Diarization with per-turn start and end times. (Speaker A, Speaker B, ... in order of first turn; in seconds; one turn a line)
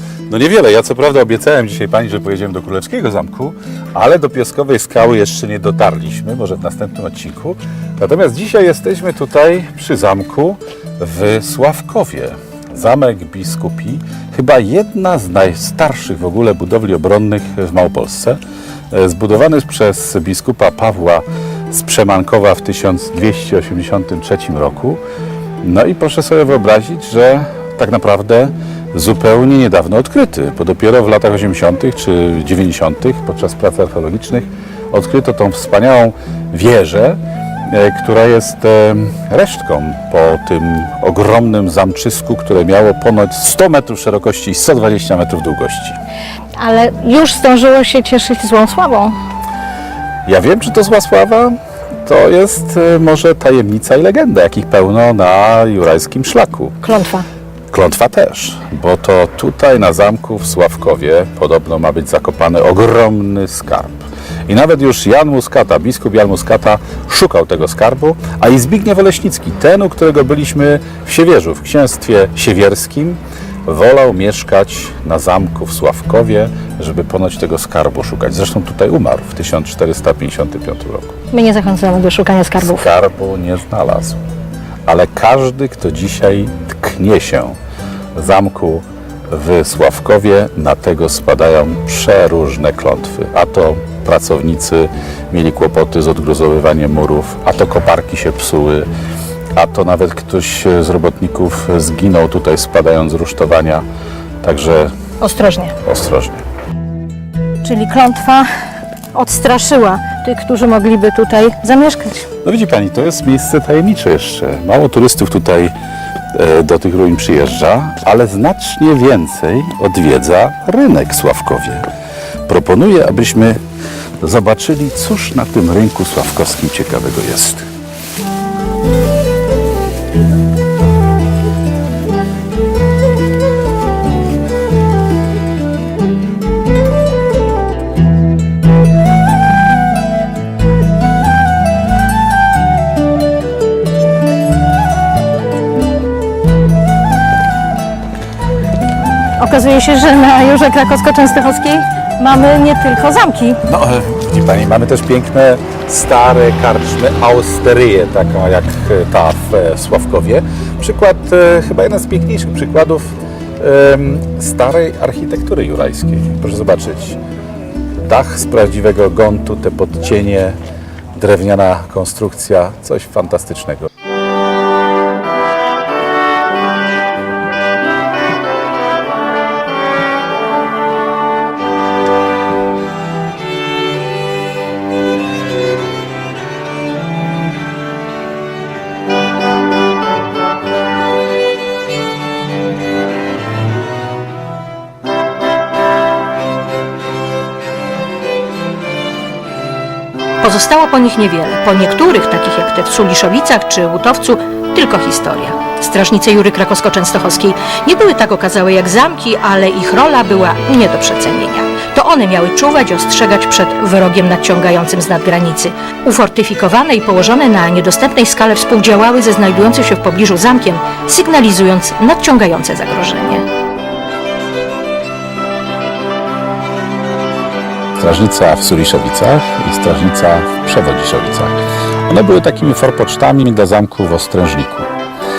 Speaker A: 0.3-18.4
Speaker A: 18.9-25.0
Speaker A: 25.6-46.0
Speaker B: 46.6-49.1
Speaker A: 50.2-56.8
Speaker B: 56.8-57.2
Speaker A: 57.7-81.1
Speaker B: 81.3-82.9
Speaker A: 82.6-84.2
Speaker A: 84.8-87.5
Speaker A: 88.1-98.9
Speaker A: 99.5-103.8
Speaker A: 104.4-104.9
Speaker B: 105.2-105.7
Speaker A: 105.8-106.4
Speaker B: 107.6-108.5
Speaker B: 109.1-112.3
Speaker A: 112.4-115.7
Speaker A: 116.3-121.9
Speaker A: 122.5-123.6
Speaker A: 124.2-127.7
Speaker B: 149.4-153.6
Speaker A: 153.7-167.2
Speaker A: 168.0-170.6
Speaker A: 171.1-173.9
Speaker B: 200.4-223.4
Speaker A: 228.0-234.9